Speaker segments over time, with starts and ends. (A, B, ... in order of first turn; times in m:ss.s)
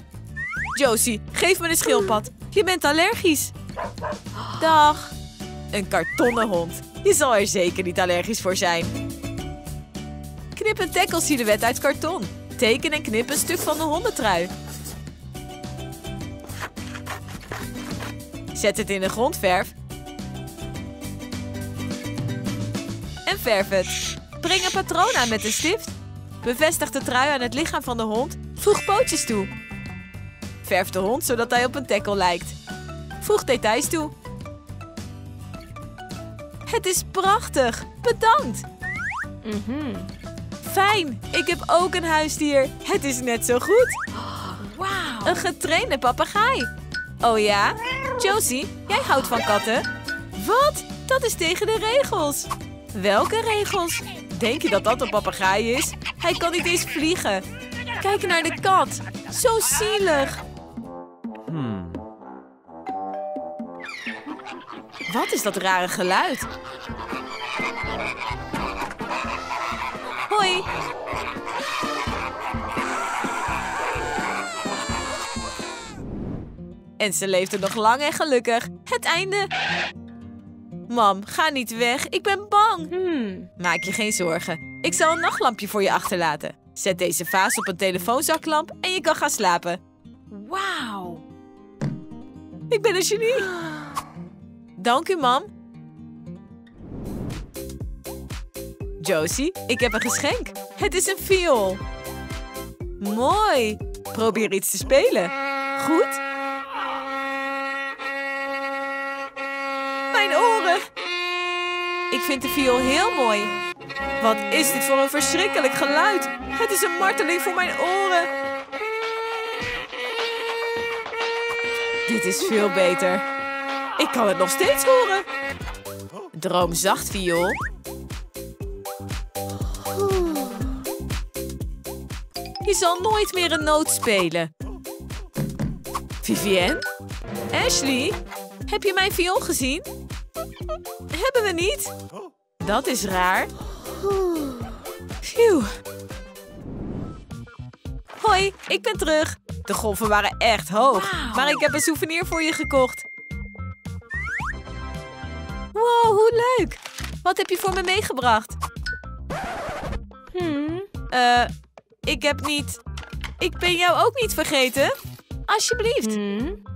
0:00.7-0:03.5 A
0:04.6-0:05.1 A
0:05.7-0:08.9 A
0:10.5-0:14.5 A
0:18.5-0:19.7 A
0:23.3-0:29.5 A
0:30.6-0:32.6 A
0:33.2-0:34.1 A
0:36.7-0:38.6 A
0:39.4-0:40.1 B
0:40.6-0:44.0 A
0:44.4-0:45.4 B
0:45.2-0:46.7 A
0:47.2-0:57.4 A
0:58.0-1:00.4 A
1:05.1-1:06.5 A
1:10.3-1:10.7 A
1:17.0-1:19.5 A
1:20.9-1:22.9 A
1:22.9-1:23.5 B
1:23.6-1:29.8 A
1:30.3-1:31.2 B
1:32.7-1:33.5 A
1:34.8-1:35.5 A
1:39.0-1:41.8 A
1:43.0-1:46.2 A
1:50.1-1:50.8 A
1:52.1-1:53.5 A
1:54.2-1:58.3 A
2:02.1-2:03.2 A
2:04.0-2:05.2 A
2:06.3-2:07.6 A
2:12.6-2:14.5 A
2:16.2-2:16.8 A
2:17.5-2:19.9 A
2:21.1-2:21.9 A
2:22.6-2:23.5 A
2:25.2-2:25.7 A
2:28.2-2:33.0 A
2:30.8-2:31.6 B
2:35.7-2:38.6 A
2:40.3-2:40.9 B
2:41.1-2:41.5 A
2:42.1-2:42.8 A
2:43.4-2:44.9 A
2:45.5-2:46.2 A
2:46.0-2:46.6 B